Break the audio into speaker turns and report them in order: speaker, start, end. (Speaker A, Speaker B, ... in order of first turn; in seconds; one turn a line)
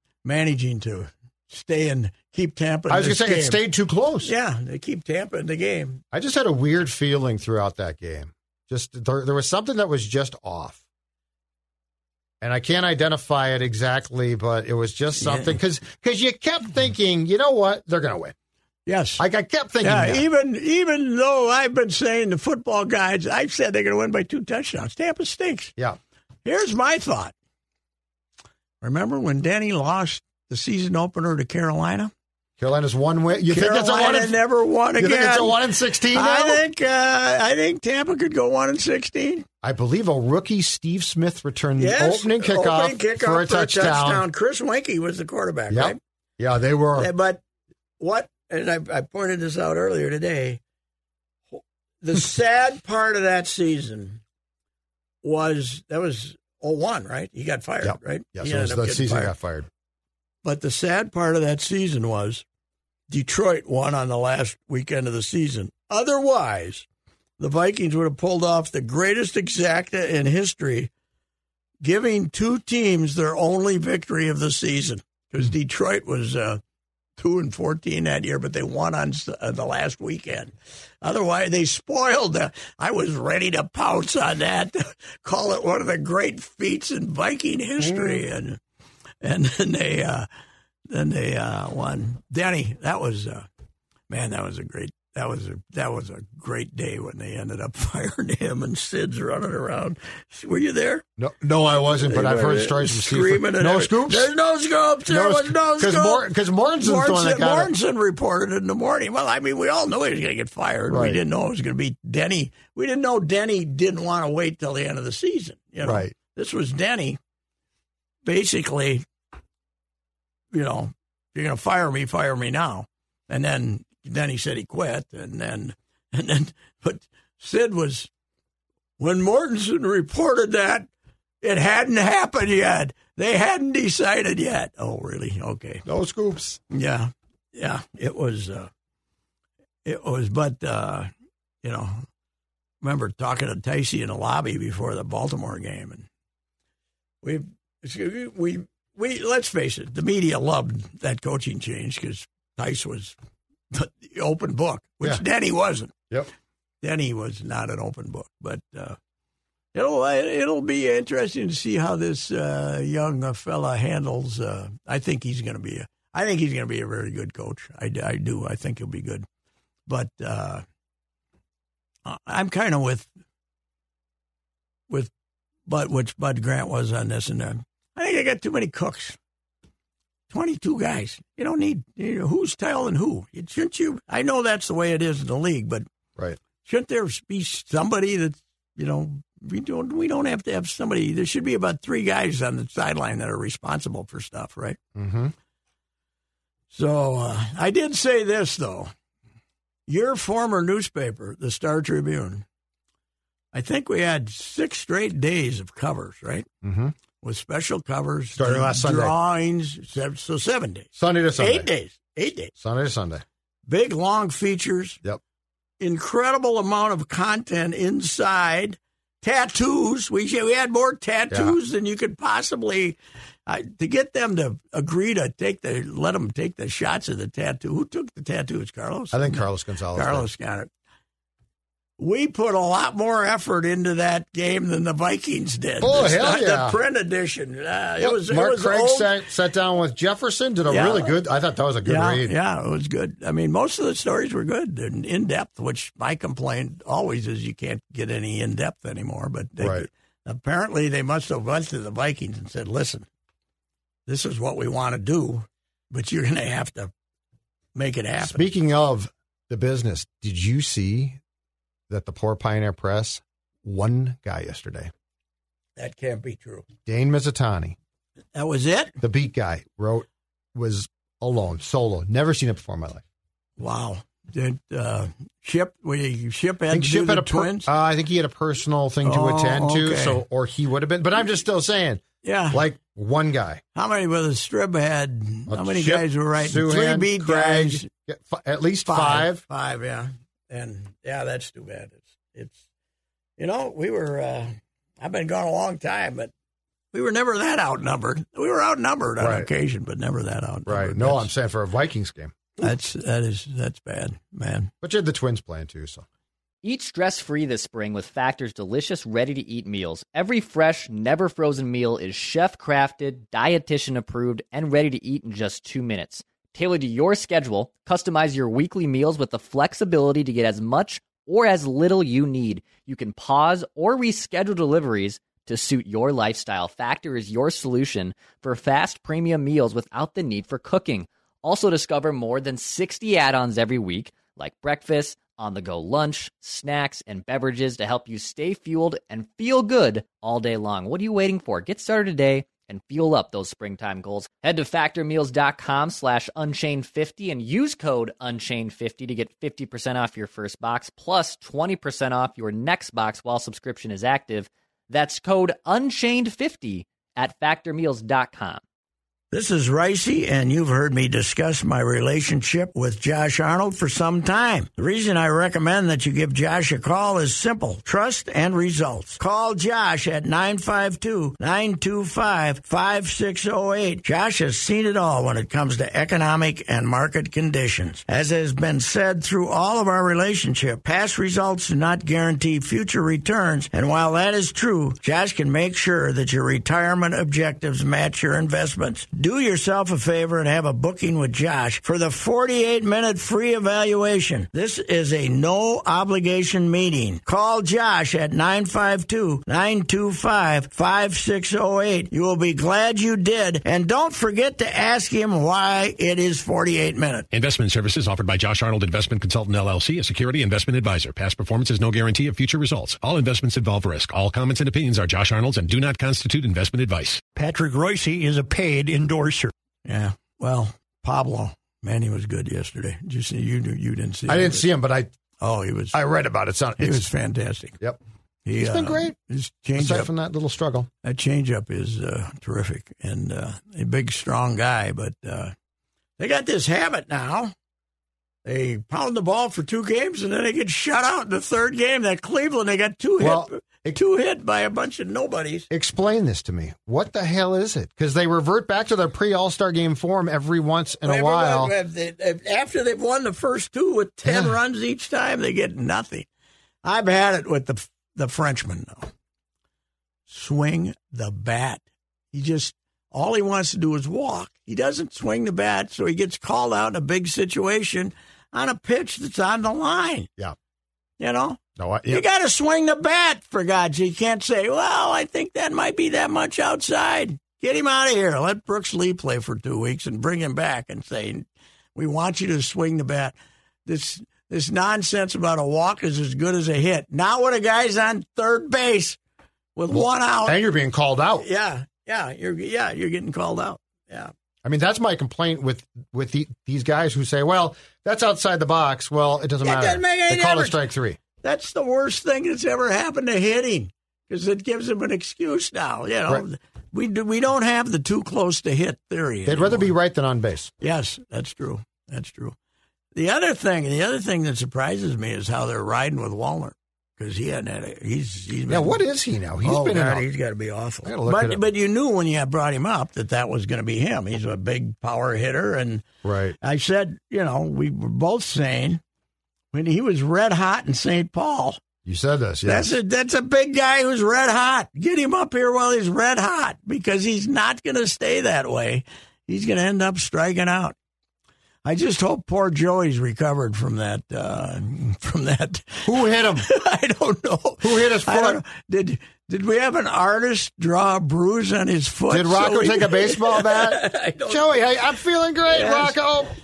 Speaker A: 0.2-3.6
Speaker B: 2.9-4.3
Speaker A: 4.2-6.0
Speaker B: 6.1-10.8
Speaker B: 12.4-18.3
Speaker A: 15.2-15.6
Speaker A: 18.9-19.2
Speaker B: 19.2-20.2
Speaker A: 19.8-25.8
Speaker A: 26.4-27.3
Speaker A: 28.8-32.1
Speaker B: 32.6-34.4
Speaker A: 33.5-39.5
Speaker B: 35.0-36.6
Speaker B: 39.6-44.2
Speaker A: 41.8-46.0
Speaker B: 45.7-47.1
Speaker A: 47.0-47.4
Speaker A: 48.0-50.6
Speaker A: 51.5-54.2
Speaker A: 55.2-59.4
Speaker B: 57.8-59.7
Speaker A: 60.4-62.5
Speaker A: 63.1-66.9
Speaker A: 67.4-70.9
Speaker A: 71.8-76.6
Speaker A: 77.2-88.6
Speaker B: 87.8-88.2
Speaker A: 89.2-90.3
Speaker A: 90.9-93.5
Speaker A: 94.1-101.0
Speaker B: 101.2-104.3
Speaker A: 102.0-117.2
Speaker B: 105.1-107.7
Speaker B: 110.9-111.2
Speaker B: 115.8-116.2
Speaker A: 118.2-119.0
Speaker A: 120.5-128.1
Speaker A: 129.0-130.9
Speaker A: 131.4-135.8
Speaker B: 135.8-136.6
Speaker A: 136.7-138.7
Speaker A: 139.8-141.1
Speaker A: 141.6-142.1
Speaker A: 142.8-146.1
Speaker A: 147.2-153.2
Speaker A: 153.7-155.9
Speaker A: 156.8-159.0
Speaker A: 159.7-169.3
Speaker A: 169.9-170.7
Speaker A: 172.1-173.1
Speaker A: 175.7-179.2
Speaker A: 180.3-185.9
Speaker A: 186.6-194.8
Speaker B: 195.0-195.3
Speaker A: 196.7-198.9
Speaker A: 199.9-202.4
Speaker A: 203.5-206.5
Speaker B: 206.6-206.9
Speaker A: 207.2-212.5
Speaker B: 208.4-209.1
Speaker B: 211.0-211.7
Speaker B: 212.6-213.2
Speaker A: 213.7-215.0
Speaker A: 215.8-230.7
Speaker B: 221.3-221.6
Speaker B: 229.1-230.3
Speaker A: 232.0-239.1
Speaker B: 235.8-236.8
Speaker B: 238.0-242.3
Speaker A: 240.7-241.2
Speaker A: 241.8-253.1
Speaker B: 249.6-249.9
Speaker A: 254.1-256.9
Speaker A: 257.8-258.5
Speaker B: 258.2-261.2
Speaker B: 261.9-264.9
Speaker A: 265.8-266.7
Speaker B: 266.9-267.8
Speaker A: 268.4-269.0
Speaker B: 269.0-273.0
Speaker A: 273.6-277.7
Speaker B: 276.7-283.6
Speaker A: 279.0-280.2
Speaker A: 282.2-282.6
Speaker A: 283.8-287.9
Speaker B: 285.5-289.4
Speaker A: 288.9-292.6
Speaker A: 293.4-296.3
Speaker A: 296.9-301.3
Speaker B: 299.2-299.5
Speaker B: 300.7-302.6
Speaker A: 302.6-304.7
Speaker B: 304.8-306.1
Speaker C: 306.6-358.6
Speaker A: 359.3-407.3
Speaker D: 407.3-417.2
Speaker E: 417.4-419.5
Speaker A: 419.9-424.7
Speaker B: 424.3-425.1
Speaker A: 425.4-426.0
Speaker B: 425.9-427.1
Speaker A: 426.8-427.8
Speaker A: 428.4-430.1
Speaker B: 428.6-429.1
Speaker B: 429.8-430.9
Speaker A: 431.0-435.5
Speaker A: 436.2-437.5
Speaker A: 438.4-445.7
Speaker B: 443.2-443.9
Speaker B: 445.7-451.7
Speaker A: 451.0-456.3
Speaker B: 454.2-454.6
Speaker A: 456.8-459.1
Speaker A: 460.3-470.3
Speaker A: 471.2-489.2
Speaker B: 471.8-472.2
Speaker A: 489.8-490.6
Speaker B: 489.9-491.4
Speaker A: 491.4-494.3
Speaker B: 494.6-501.2
Speaker A: 499.6-500.8
Speaker A: 501.4-509.9
Speaker B: 509.5-510.7
Speaker A: 510.8-512.6
Speaker A: 513.1-519.0
Speaker B: 518.7-520.2
Speaker A: 519.6-526.0
Speaker B: 521.0-521.6
Speaker B: 526.2-526.6
Speaker A: 526.6-529.0
Speaker A: 529.7-531.8
Speaker B: 532.0-533.0
Speaker A: 532.6-541.0
Speaker A: 541.9-554.8
Speaker B: 546.0-546.7
Speaker B: 547.8-548.6
Speaker B: 552.3-556.5
Speaker A: 555.7-556.2